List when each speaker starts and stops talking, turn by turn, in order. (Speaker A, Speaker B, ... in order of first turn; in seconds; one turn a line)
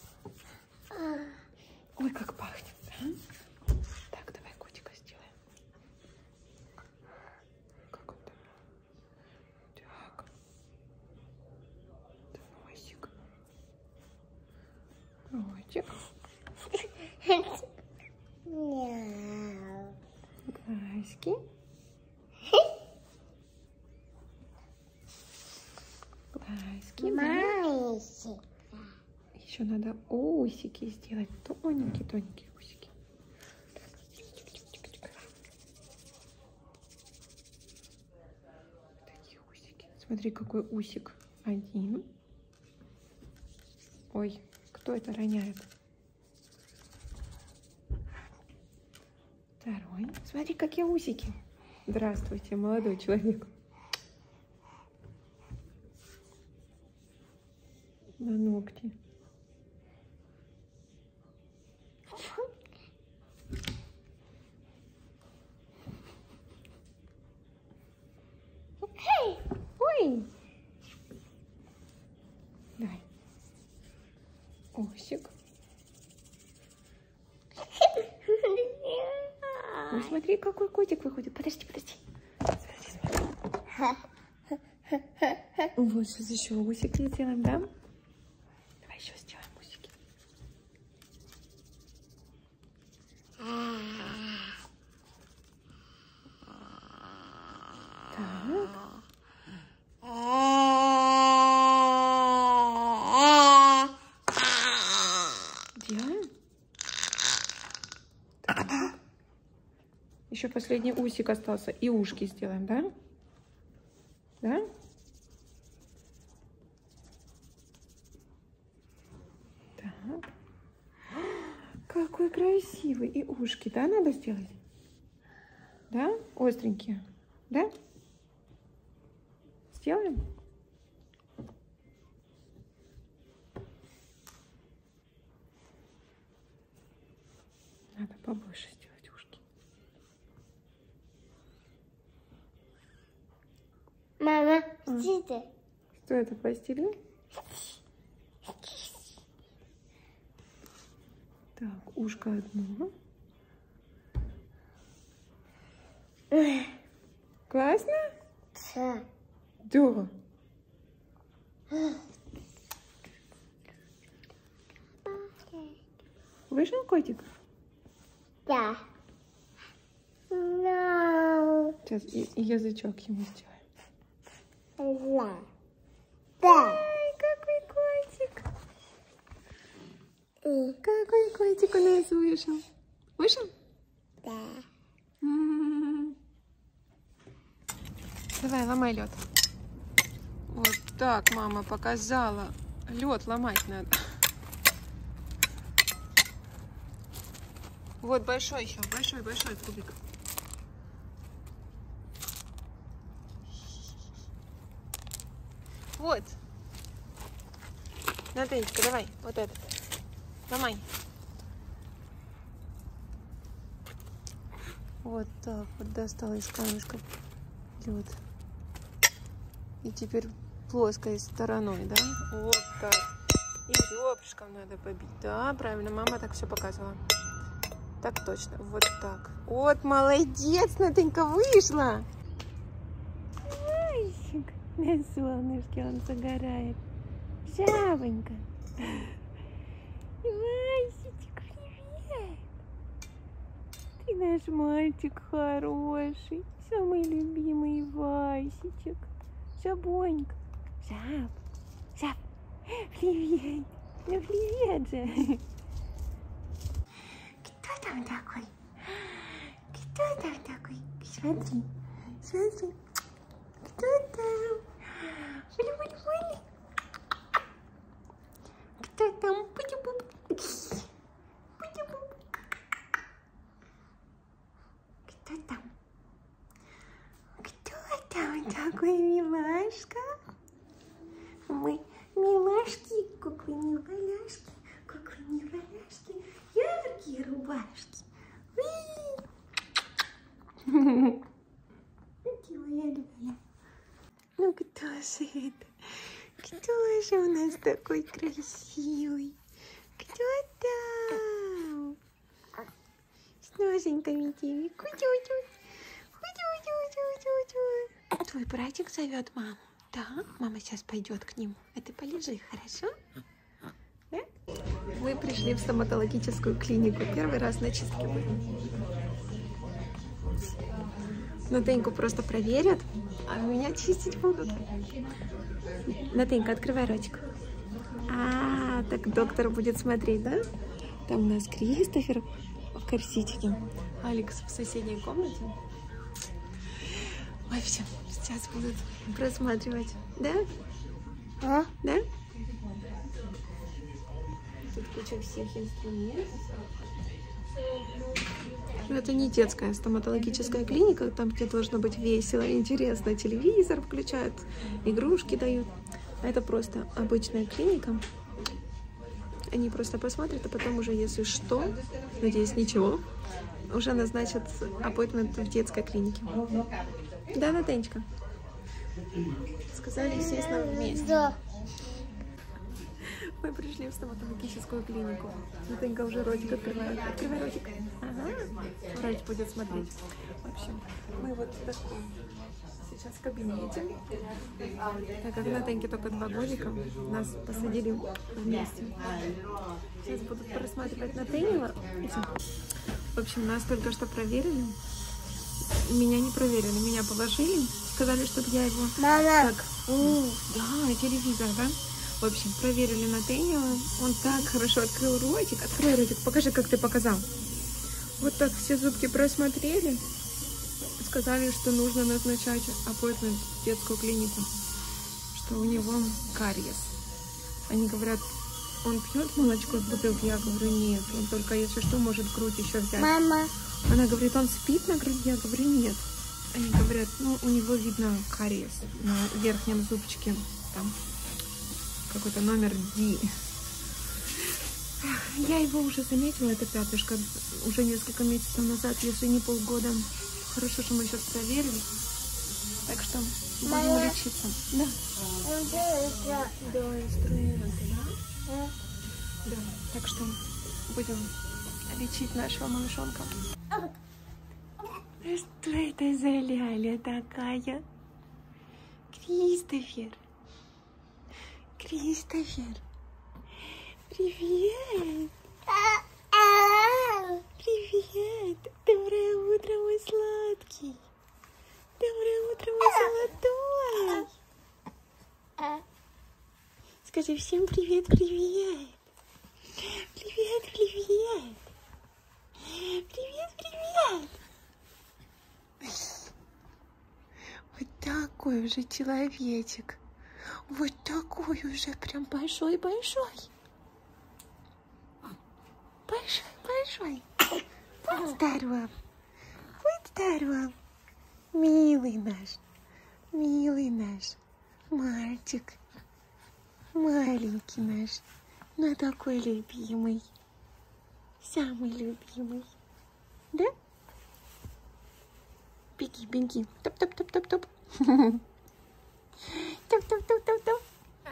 Speaker A: 2.0-3.2
Speaker A: 4.1-5.3
Speaker A: 7.9-8.4
Speaker A: 9.8-10.3
Speaker A: 12.3-13.1
Speaker A: 15.3-15.9
Speaker B: 17.2-17.6
Speaker B: 18.5-19.9
Speaker A: 20.5-21.4
Speaker A: 26.3-27.6
Speaker B: 27.0-28.4
Speaker A: 29.3-32.9
Speaker A: 34.2-35.3
Speaker A: 39.1-42.1
Speaker A: 44.1-45.7
Speaker A: 49.6-53.5
Speaker A: 58.2-59.0
Speaker B: 62.2-62.5
Speaker B: 68.8-69.4
Speaker A: 69.8-70.3
Speaker A: 72.8-73.0
Speaker A: 74.8-75.3
Speaker B: 78.3-79.8
Speaker A: 79.8-83.2
Speaker A: 85.7-87.7
Speaker A: 88.8-89.9
Speaker A: 98.1-98.8
Speaker A: 105.8-106.2
Speaker A: 108.4-108.9
Speaker A: 110.3-112.9
Speaker A: 114.4-114.7
Speaker A: 119.8-120.3
Speaker A: 121.9-124.5
Speaker A: 125.9-127.7
Speaker A: 129.7-130.2
Speaker A: 137.9-139.4
Speaker B: 144.2-145.5
Speaker A: 144.8-145.1
Speaker A: 146.0-146.9
Speaker A: 151.6-152.9
Speaker B: 156.3-156.7
Speaker A: 157.5-158.1
Speaker B: 158.6-159.0
Speaker A: 159.6-160.1
Speaker B: 165.1-165.8
Speaker A: 166.5-167.3
Speaker B: 168.5-168.8
Speaker B: 170.3-171.8
Speaker A: 171.8-173.6
Speaker B: 174.8-175.5
Speaker B: 176.4-176.8
Speaker A: 176.4-178.5
Speaker B: 180.4-180.8
Speaker A: 180.8-182.6
Speaker A: 183.2-183.5
Speaker B: 184.2-184.7
Speaker A: 185.2-186.2
Speaker A: 188.4-189.2
Speaker A: 190.5-194.0
Speaker A: 198.0-200.0
Speaker A: 206.0-206.4
Speaker A: 208.3-209.6
Speaker A: 210.5-210.9
Speaker A: 215.0-217.1
Speaker A: 217.8-218.2
Speaker A: 219.8-223.1
Speaker A: 223.7-227.0
Speaker A: 228.0-232.1
Speaker A: 233.4-236.8
Speaker A: 237.4-239.2
Speaker A: 240.2-242.4
Speaker A: 244.0-251.4
Speaker A: 252.0-255.4
Speaker A: 257.4-262.8
Speaker A: 263.6-266.4
Speaker A: 268.8-270.9
Speaker A: 271.6-272.4
Speaker A: 275.0-275.7
Speaker A: 277.4-280.1
Speaker A: 281.5-289.2
Speaker A: 290.6-291.2
Speaker A: 292.2-293.4
Speaker A: 294.4-299.4
Speaker A: 300.0-302.0
Speaker A: 303.4-305.5
Speaker A: 306.1-312.9
Speaker A: 314.9-318.4
Speaker A: 321.5-324.6
Speaker A: 325.9-327.2
Speaker A: 328.1-330.4
Speaker A: 331.1-335.6
Speaker A: 337.5-340.4
Speaker B: 341.4-341.7
Speaker A: 344.7-346.3
Speaker A: 348.8-358.0
Speaker A: 359.5-363.0
Speaker A: 363.7-366.4
Speaker A: 367.3-368.0
Speaker A: 369.7-371.4
Speaker A: 373.1-382.1
Speaker A: 382.8-383.9
Speaker A: 385.2-389.0
Speaker A: 390.0-392.3
Speaker A: 393.1-394.8
Speaker A: 395.8-407.3
Speaker B: 399.0-399.5
Speaker A: 408.2-410.0
Speaker A: 411.0-414.5
Speaker A: 415.3-416.9
Speaker A: 417.7-418.3
Speaker A: 418.8-423.1
Speaker B: 423.0-423.5
Speaker A: 423.9-431.0
Speaker A: 432.1-433.3
Speaker A: 435.0-441.9
Speaker A: 442.9-445.0
Speaker B: 443.7-444.2
Speaker B: 445.4-446.6
Speaker A: 446.6-448.2
Speaker B: 448.5-448.7
Speaker A: 449.4-451.3
Speaker A: 451.9-453.4
Speaker A: 455.2-457.9
Speaker A: 459.1-460.2
Speaker A: 461.8-462.8
Speaker A: 464.1-465.4
Speaker B: 465.7-467.4
Speaker A: 467.5-471.0
Speaker A: 472.0-474.3
Speaker A: 477.0-479.0
Speaker A: 479.8-481.7
Speaker A: 482.6-484.4
Speaker A: 485.9-486.1
Speaker A: 487.7-490.0
Speaker A: 490.7-493.5
Speaker A: 496.1-497.2
Speaker A: 498.1-498.9
Speaker A: 499.8-500.8
Speaker A: 501.5-502.6
Speaker A: 503.3-504.4
Speaker A: 504.9-505.8
Speaker A: 506.9-508.2
Speaker A: 508.8-510.2
Speaker A: 511.4-512.8
Speaker A: 516.0-518.4
Speaker A: 519.4-520.9